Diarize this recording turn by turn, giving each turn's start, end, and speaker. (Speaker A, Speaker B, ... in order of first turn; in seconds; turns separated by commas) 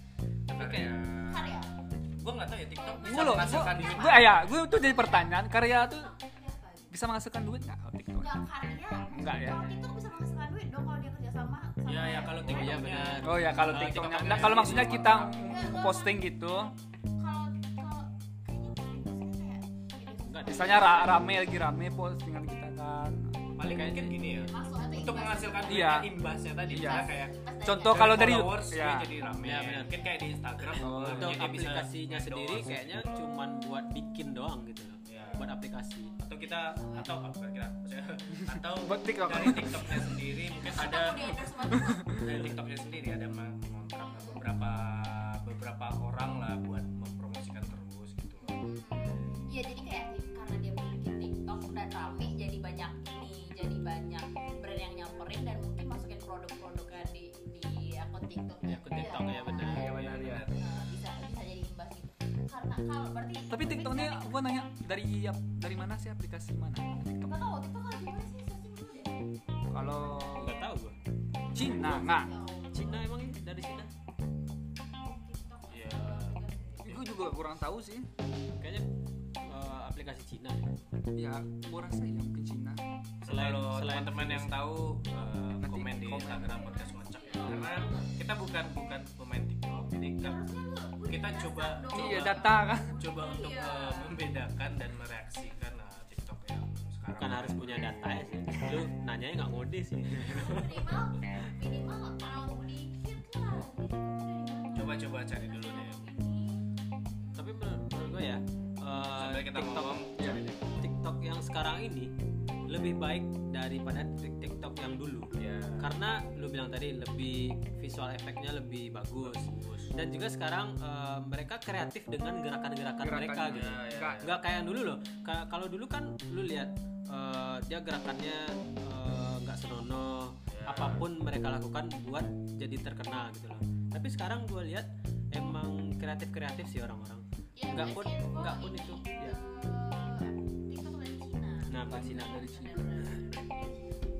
Speaker A: 0.5-4.5, Speaker B: 0.5-0.9, Speaker C: 1.2-1.7, Speaker C: 2.7-7.0, Speaker D: 3.0-6.1, Speaker D: 6.9-8.3, Speaker C: 8.2-13.1, Speaker D: 9.1-9.6, Speaker A: 11.8-15.7, Speaker B: 12.4-15.3, Speaker D: 13.2-16.7, Speaker C: 15.4-16.2, Speaker C: 17.2-21.3, Speaker B: 20.3-21.1, Speaker D: 20.5-23.3, Speaker A: 23.6-33.2, Speaker B: 23.7-24.2, Speaker C: 24.4-26.1, Speaker D: 25.7-26.1, Speaker C: 26.6-28.4, Speaker D: 26.7-27.1, Speaker D: 27.6-29.1, Speaker B: 29.4-30.0, Speaker C: 29.8-30.2, Speaker D: 30.8-31.4, Speaker B: 31.0-36.1, Speaker A: 35.0-35.5, Speaker C: 35.1-37.1, Speaker A: 36.2-41.4, Speaker D: 38.8-40.1, Speaker C: 40.7-42.1, Speaker D: 41.9-42.3, Speaker A: 42.1-48.5, Speaker C: 44.0-44.4, Speaker C: 48.4-64.3, Speaker B: 58.6-59.9, Speaker D: 59.6-60.5, Speaker A: 59.7-61.0, Speaker D: 63.5-67.4, Speaker C: 67.2-69.1, Speaker D: 69.7-70.6, Speaker C: 69.8-70.4, Speaker B: 70.3-71.0, Speaker C: 71.5-73.0, Speaker D: 71.5-72.3, Speaker B: 72.7-73.9, Speaker C: 75.1-76.9, Speaker A: 75.7-76.4, Speaker D: 76.8-78.1, Speaker B: 78.6-78.9, Speaker B: 79.4-80.6, Speaker D: 81.1-82.8, Speaker A: 83.2-90.4, Speaker B: 83.2-84.6, Speaker D: 85.6-86.6, Speaker C: 86.3-88.1, Speaker C: 90.2-94.2, Speaker A: 91.1-98.2, Speaker D: 91.9-92.9, Speaker B: 97.2-100.9, Speaker C: 100.2-106.6, Speaker A: 104.7-106.1, Speaker C: 107.2-107.5, Speaker B: 107.3-112.1, Speaker A: 109.1-110.6, Speaker D: 110.2-110.4, Speaker B: 112.7-139.4, Speaker A: 115.3-115.9, Speaker A: 119.2-119.9, Speaker D: 123.0-124.2, Speaker A: 123.5-124.4, Speaker A: 130.5-131.1, Speaker C: 137.6-144.1, Speaker B: 141.7-142.5, Speaker D: 141.9-143.1